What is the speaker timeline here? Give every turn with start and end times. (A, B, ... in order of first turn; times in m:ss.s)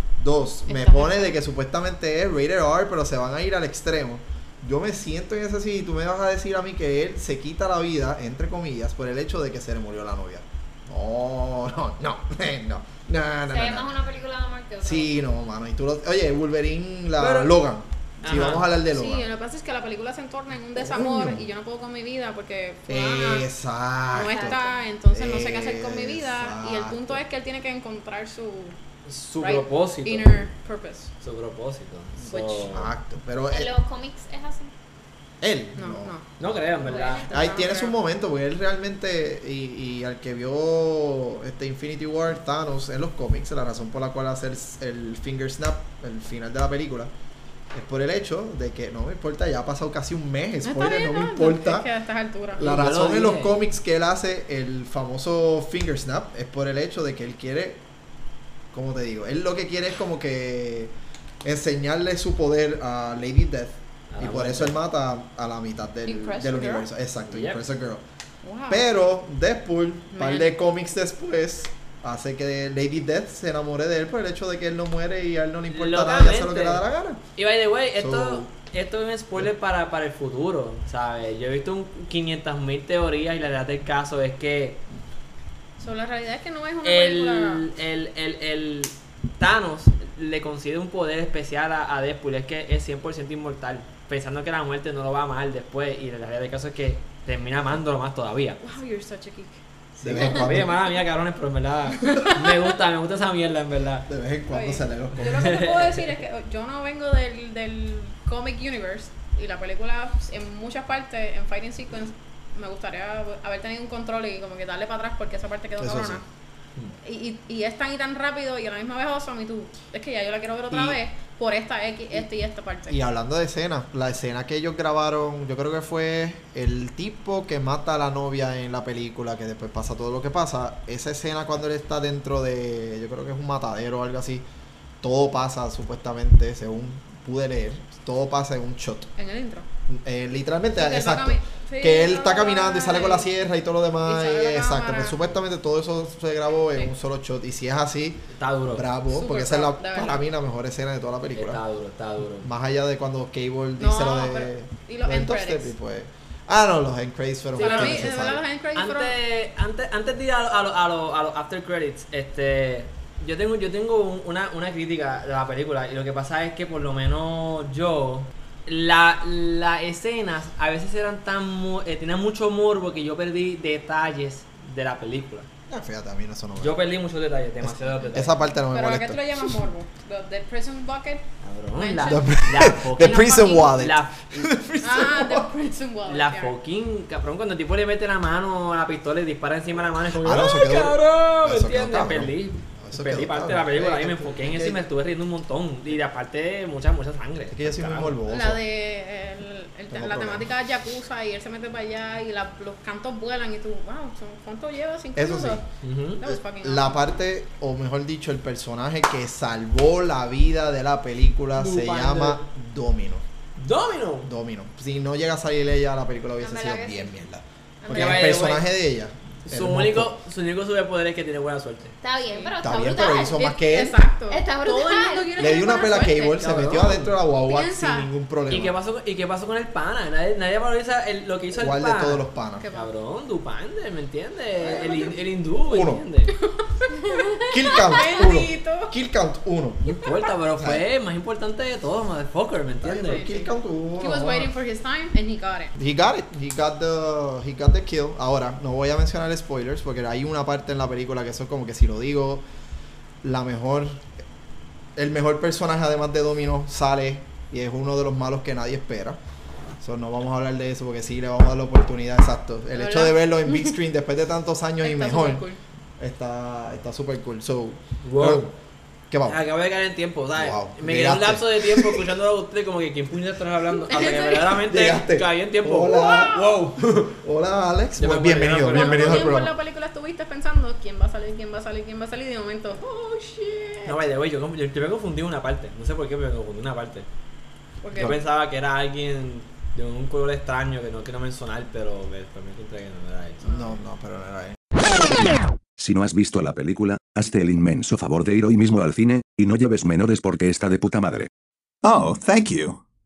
0:00.2-0:13.9 A
0:00.7-0:01.4 B
0:13.5-0:15.2 C
0:14.8-0:19.3 A
0:17.2-0:17.6 D
0:18.2-0:18.7 D
0:18.3-0:23.5 B
0:20.8-0:21.5 A
0:22.9-0:27.2 A
0:24.1-0:28.8 B
0:24.2-0:24.7 C
0:29.0-0:30.5 D
0:29.4-0:31.1 B
0:31.2-0:32.9 D
0:32.3-0:32.8 B
0:32.7-0:33.7 A
0:33.5-0:34.7 C
0:35.4-0:36.1 A
0:35.8-0:36.3 B
0:36.4-0:37.3 D
0:36.9-0:38.0 B
0:37.3-0:47.1 A
0:47.7-0:51.9 A
0:50.6-0:52.7 B
0:52.5-0:57.8 A
0:52.6-0:53.6 D
0:58.7-1:08.0 A
1:04.1-1:04.8 D
1:06.1-1:06.9 B
1:07.3-1:07.7 D
1:08.4-1:08.8 B
1:08.7-1:17.2 A
1:10.1-1:10.5 B
1:15.7-1:16.8 D
1:17.4-1:24.8 D
1:18.0-1:18.5 A
1:25.8-1:27.6 B
1:26.8-1:38.6 D
1:38.6-1:39.6 B
1:40.0-1:44.1 D
1:40.0-1:40.8 A
1:40.2-1:40.7 B
1:44.1-1:45.6 A
1:44.5-1:56.2 B
1:45.2-1:46.1 D
1:55.8-1:56.2 A
1:57.0-2:03.0 B
2:00.7-2:01.0 A
2:02.9-2:14.4 A
2:15.0-2:19.1 A
2:19.2-2:19.7 B
2:19.9-2:31.6 A
2:20.7-2:23.3 B
2:24.0-2:25.2 B
2:28.3-2:28.9 D
2:29.1-2:30.2 B
2:31.4-2:32.5 D
2:32.2-2:38.4 A
2:33.8-2:35.7 B
2:37.6-2:38.1 D
2:37.6-2:39.2 B
2:38.8-2:55.5 D
2:55.7-2:56.8 A
2:56.6-2:58.5 D
2:57.6-2:59.6 A
2:58.7-3:01.2 B
3:01.4-3:04.5 D
3:01.8-3:03.7 B
3:02.0-3:05.5 A
3:04.8-3:06.5 B
3:06.1-3:18.2 D
3:10.2-3:14.8 A
3:17.5-3:18.6 A
3:18.3-3:25.6 B
3:19.9-3:20.5 A
3:25.2-3:25.6 A
3:25.8-3:26.2 D
3:26.2-3:27.0 B
3:26.2-3:33.2 A
3:31.6-3:32.4 D
3:33.6-3:34.3 D
3:34.2-3:40.2 A
3:36.4-3:37.2 C
3:37.8-3:38.4 B
3:37.9-3:38.6 D
3:39.4-3:42.0 D
3:42.0-3:43.5 C
3:42.3-3:42.5 B
3:42.6-3:44.0 A
3:43.2-3:46.6 B
3:44.3-3:45.3 C
3:45.4-3:48.8 A
3:46.3-3:47.2 D
3:47.4-3:48.1 B
3:48.5-3:56.3 D
3:51.5-3:52.7 A
3:52.6-3:52.9 B
3:55.7-3:56.0 A
3:56.6-3:58.9 B
3:57.5-3:59.8 A
3:59.8-4:03.3 D
4:00.6-4:00.8 A
4:02.8-4:04.5 A
4:03.1-4:05.7 B
4:05.8-4:12.4 A
4:13.2-4:14.1 A
4:15.0-4:19.2 A
4:19.8-4:25.4 A
4:22.8-4:23.7 B
4:24.8-4:25.6 B
4:26.0-4:28.5 A
4:28.0-4:28.5 D
4:29.1-4:29.4 A
4:29.3-4:37.2 D
4:30.4-4:32.1 A
4:33.9-4:34.5 B
4:34.0-4:39.6 A
4:36.0-4:36.4 B
4:38.0-4:39.4 D
4:38.7-4:44.0 B
4:43.8-4:47.1 D
4:47.8-4:48.2 B
4:47.9-4:53.5 D
4:53.4-4:53.8 B
4:53.4-4:54.6 A
4:55.8-5:01.3 E
5:01.8-5:02.8 E